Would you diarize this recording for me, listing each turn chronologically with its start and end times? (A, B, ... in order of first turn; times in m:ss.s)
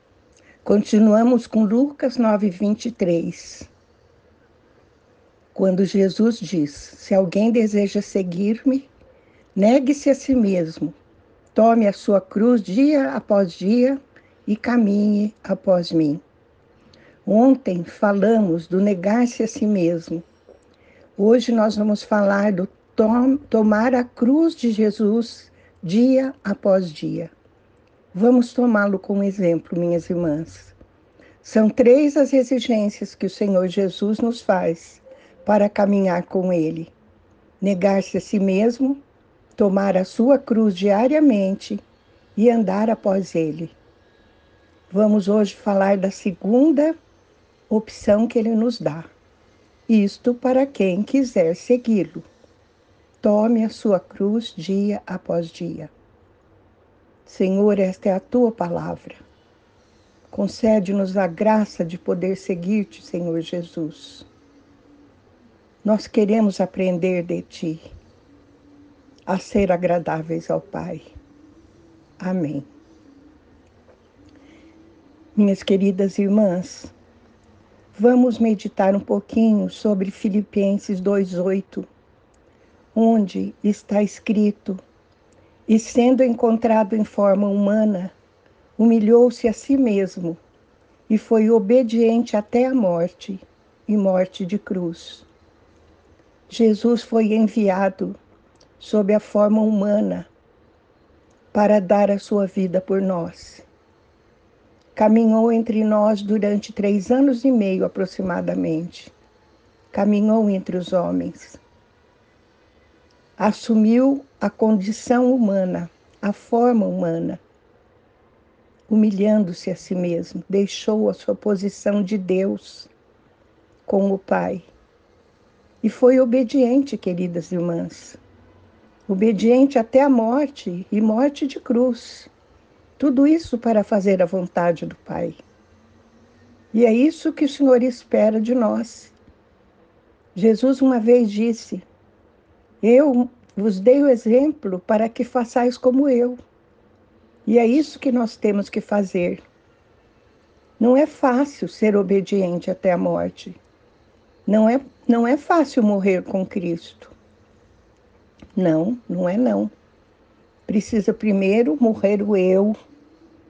0:00.6-0:03.7 A
0:05.5-0:08.9 A
0:09.6-0:11.0 A
0:11.5-0:16.2 A
0:17.2-0:20.3 A
0:21.2-0:27.3 A
0:28.1-0:30.8 A
0:31.4-0:36.9 A
0:37.6-0:39.0 A
0:39.6-0:41.8 A
0:42.4-0:43.8 A
0:44.9-0:47.0 A
0:47.7-0:49.1 A
0:49.9-0:52.3 A
0:53.2-0:55.9 A
0:57.3-0:59.2 A
1:00.3-1:04.3 A
1:05.8-1:07.9 A
1:09.3-1:11.1 A
1:12.2-1:12.7 A
1:15.4-1:16.9 A
1:17.9-1:21.9 A
1:22.9-1:24.8 A
1:25.7-1:28.1 A
1:28.8-1:30.4 A
1:31.1-1:35.3 A
1:36.5-1:38.2 A
1:38.8-1:40.3 A
1:41.5-1:43.7 A
1:45.0-1:49.1 A
1:49.9-1:51.6 A
1:53.4-1:57.4 A
1:58.9-2:02.9 A
2:03.9-2:04.7 A
2:05.8-2:08.2 A
2:09.1-2:12.3 A
2:13.0-2:15.4 A
2:16.7-2:19.2 A
2:20.4-2:21.8 A
2:22.8-2:26.4 A
2:27.5-2:29.4 A
2:30.8-2:33.6 A
2:34.5-2:37.1 A
2:38.6-2:39.7 A
2:40.7-2:42.8 A